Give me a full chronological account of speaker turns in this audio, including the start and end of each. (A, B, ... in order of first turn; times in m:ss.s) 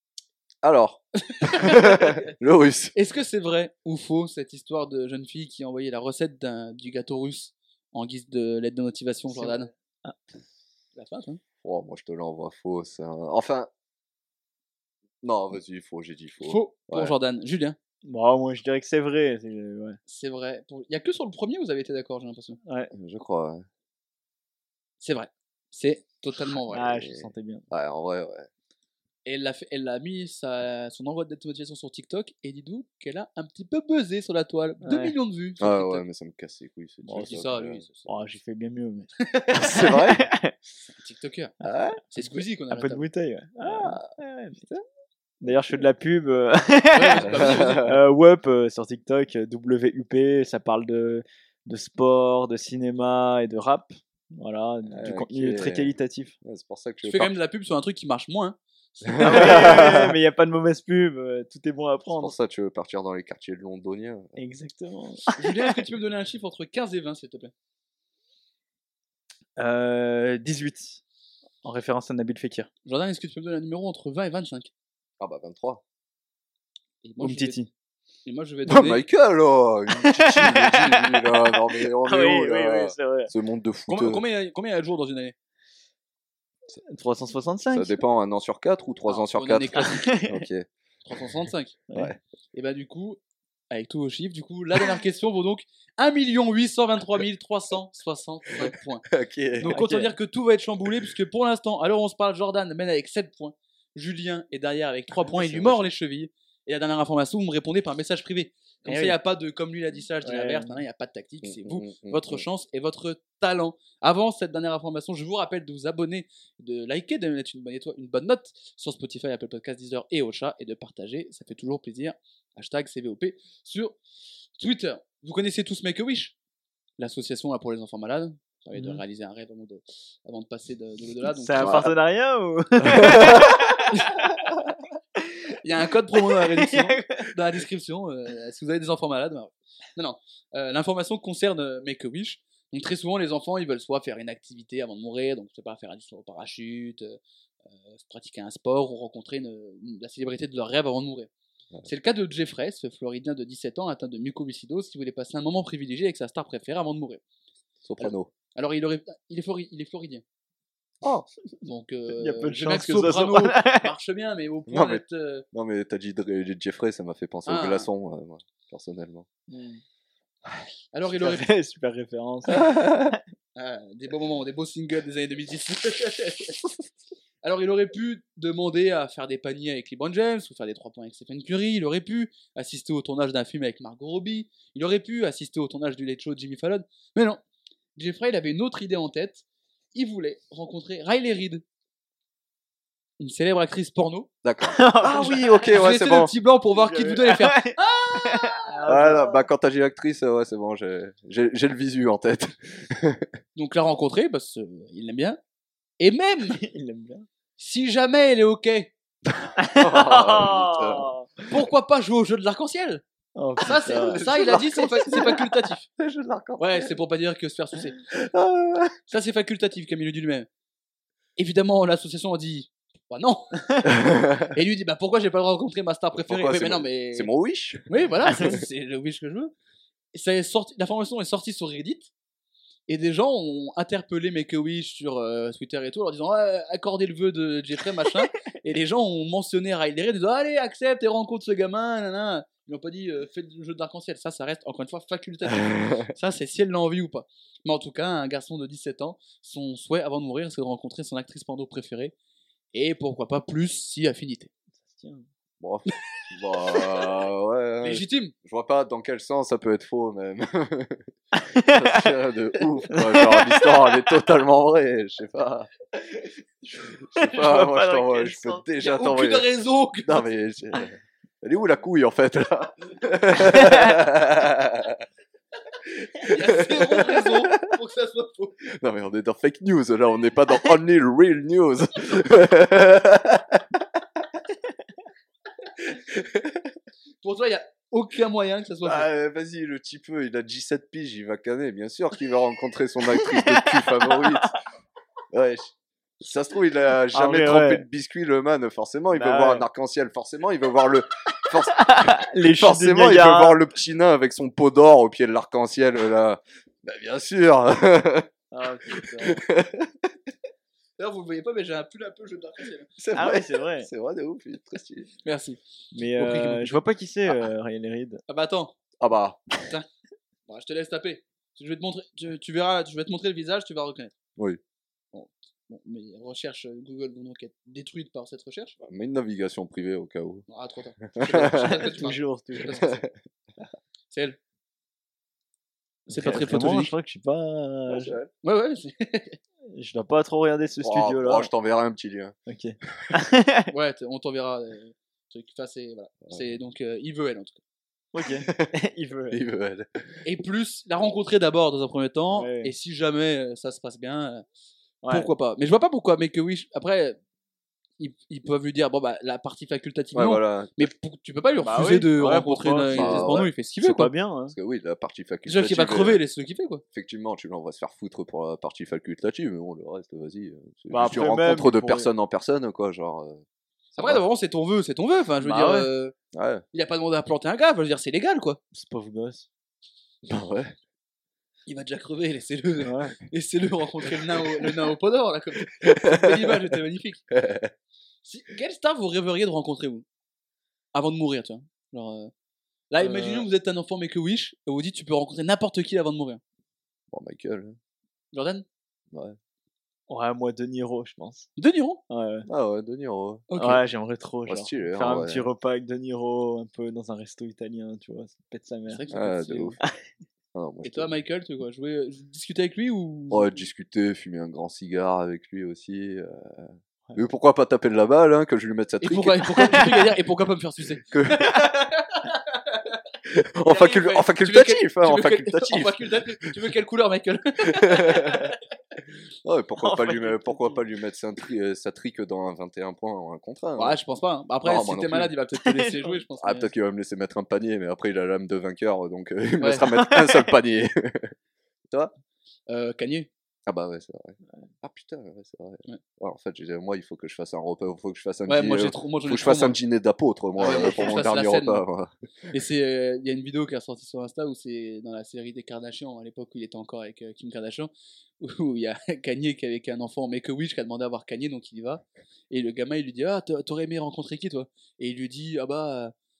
0:00.6-0:02.9 A
0:01.3-0:02.3 B
0:02.9-0:09.7 B
0:09.3-0:10.2 C
0:11.0-0:11.4 B
0:11.6-0:13.7 A
0:15.2-0:17.1 A
0:16.4-0:17.8 B
0:18.0-0:20.0 C
0:20.1-0:22.6 B
0:22.6-0:22.9 C
0:22.9-0:23.6 A
0:25.0-0:27.0 B
0:26.7-0:27.6 C
0:27.0-0:28.5 A
0:29.2-0:36.0 B
0:34.8-0:35.2 C
0:35.6-0:37.8 A
0:37.0-0:37.4 C
0:37.1-0:38.2 B
0:38.0-0:39.1 C
0:39.2-0:39.8 B
0:39.5-0:40.2 A
0:39.7-0:40.5 C
0:41.0-0:41.5 B
0:41.6-0:42.0 A
0:42.1-0:43.0 B
0:42.7-0:44.7 C
0:43.6-0:44.1 A
0:45.4-0:56.4 C
0:46.9-0:47.9 B
0:47.2-0:48.0 A
0:54.9-0:57.3 A
0:57.0-0:59.9 B
0:59.0-1:00.2 A
0:59.2-1:02.3 C
1:02.2-1:04.4 A
1:04.4-1:05.8 C
1:05.4-1:07.5 B
1:09.6-1:11.0 C
1:11.6-1:12.7 C
1:12.8-1:14.7 B
1:15.2-1:15.8 A
1:17.0-1:17.6 B
1:17.2-1:17.7 C
1:18.2-1:19.0 B
1:18.7-1:24.2 A
1:19.9-1:21.2 C
1:22.0-1:23.3 C
1:23.9-1:25.3 B
1:26.8-1:28.0 C
1:27.7-1:30.7 A
1:29.1-1:30.2 B
1:29.7-1:30.4 C
1:31.0-1:31.8 B
1:32.5-1:33.2 B
1:33.7-1:39.0 B
1:38.6-1:39.7 A
1:39.6-2:04.0 B
1:39.7-1:40.1 C
1:45.2-1:45.9 A
1:48.8-1:49.2 C
1:50.2-1:50.8 C
1:51.4-1:52.4 A
2:04.6-2:06.3 B
2:07.0-2:11.9 B
2:08.7-2:09.0 C
2:11.3-2:14.5 C
2:11.6-2:11.9 A
2:12.9-2:13.6 A
2:13.9-2:14.2 B
2:15.2-2:15.6 C
2:15.6-2:27.2 B
2:16.2-2:17.3 C
2:27.7-2:31.3 B
2:31.8-2:37.2 B
2:37.8-2:38.3 A
2:38.0-2:40.2 B
2:41.0-2:41.3 A
2:41.6-2:45.4 B
2:42.1-2:43.9 C
2:44.7-2:49.3 A
2:47.4-2:47.9 B
2:49.5-2:49.8 C
2:50.9-2:51.5 B
2:51.2-2:53.2 C
2:52.5-2:53.2 A
2:53.6-2:56.6 B
2:57.4-3:07.4 B
3:08.0-3:11.6 B
3:13.2-3:14.3 B
3:14.4-3:16.3 A
3:14.7-3:15.8 C
3:15.6-3:18.9 B
3:16.7-3:19.4 C
3:18.8-3:23.3 A
3:23.6-3:25.4 B
3:26.0-3:26.6 B
3:26.5-3:27.3 C
3:27.6-3:28.9 B
3:29.3-3:31.1 A
3:29.6-3:31.5 C
3:31.5-3:33.0 B
3:33.4-3:34.2 C
3:33.6-3:35.8 B
3:33.8-3:37.0 A
3:36.6-3:38.0 B
3:38.1-3:39.0 A
3:39.1-3:40.5 B
3:41.4-3:43.9 B
3:43.8-3:44.5 A
3:44.5-3:47.3 B
3:46.2-3:48.6 A
3:47.8-3:49.5 B
3:50.1-3:52.1 B
3:52.9-4:12.1 B
4:05.5-4:06.0 A
4:12.7-4:14.5 B
4:14.8-4:15.2 C
4:15.6-4:25.7 A
4:17.8-4:18.3 B
4:21.4-4:22.1 C
4:22.9-4:24.0 C
4:27.0-4:29.5 A
4:27.1-4:28.6 C
4:28.8-4:30.2 B
4:30.0-4:35.0 A
4:35.8-4:37.6 A
4:36.2-4:38.6 B
4:38.6-4:43.8 A
4:45.8-4:46.7 A
4:47.2-4:49.1 B
4:48.8-4:54.6 A
4:53.2-4:54.4 C
4:55.3-5:08.3 A
4:57.1-4:57.8 C
4:59.1-4:59.6 C
5:01.8-5:03.6 C
5:08.5-5:09.4 C
5:08.9-5:10.1 A
5:11.0-5:12.9 B
5:13.0-5:15.1 A
5:13.1-5:13.9 C
5:15.2-5:15.6 B
5:15.9-5:18.2 C
5:16.1-5:16.8 B
5:18.3-5:18.8 B
5:19.0-5:19.5 A
5:20.5-5:24.1 B
5:25.1-5:28.8 B
5:28.8-5:30.4 A
5:30.5-5:33.0 B
5:31.1-5:31.9 A
5:31.8-5:32.9 C
5:32.6-5:33.1 A
5:34.1-5:34.4 B
5:36.1-5:36.9 B
5:36.1-5:38.2 C
5:37.9-5:38.3 A
5:38.4-5:39.4 B
5:39.7-5:41.5 C
5:40.8-5:42.3 A
5:42.5-5:43.7 C
5:43.7-5:47.6 B
5:48.1-5:49.4 C
5:48.4-5:48.7 A
5:49.3-5:50.0 A
5:50.2-5:54.4 B
5:52.3-5:52.7 C
5:55.0-5:55.3 C
5:55.1-5:57.2 B
5:58.0-6:04.1 B
6:00.1-6:00.9 A
6:01.6-6:04.6 C
6:02.9-6:03.5 A
6:04.5-6:06.2 A
6:05.4-6:06.8 B
6:06.9-6:13.4 A
6:10.9-6:12.1 C
6:13.9-6:14.2 A
6:14.0-6:16.1 B
6:15.4-6:15.9 C
6:16.3-6:16.6 A
6:16.7-6:18.6 B
6:18.7-6:19.4 C
6:20.2-6:20.8 A
6:21.7-6:27.2 B
6:22.8-6:23.1 C
6:25.8-6:26.6 A
6:27.3-6:27.7 A
6:28.2-6:30.0 B
6:30.9-6:32.3 B
6:32.9-6:36.4 B
6:33.0-6:33.5 A
6:37.1-6:37.8 A
6:38.3-6:38.6 B
6:39.1-6:39.4 A
6:40.1-6:41.5 C
6:41.6-6:42.0 B
6:42.1-6:42.5 C
6:42.5-6:43.5 A
6:43.5-6:43.8 B
6:43.6-6:49.0 C
6:44.5-6:45.4 A
6:48.9-6:49.8 B
6:49.1-6:49.8 A
6:50.5-6:51.2 A
6:50.8-6:53.6 B
6:53.3-6:59.9 A
6:59.0-7:03.0 B
7:01.1-7:01.6 A
7:03.2-7:06.5 A
7:03.6-7:08.5 B
7:07.7-7:08.5 A
7:09.4-7:14.0 A
7:09.8-7:10.7 C
7:13.8-7:16.7 B
7:14.6-7:15.3 A
7:15.8-7:16.2 C
7:16.4-7:21.3 A
7:19.6-7:19.8 B
7:19.9-7:20.5 C
7:22.7-7:23.3 B
7:23.6-7:32.5 A
7:28.5-7:29.8 B
7:30.6-7:31.8 B
7:32.5-7:46.1 B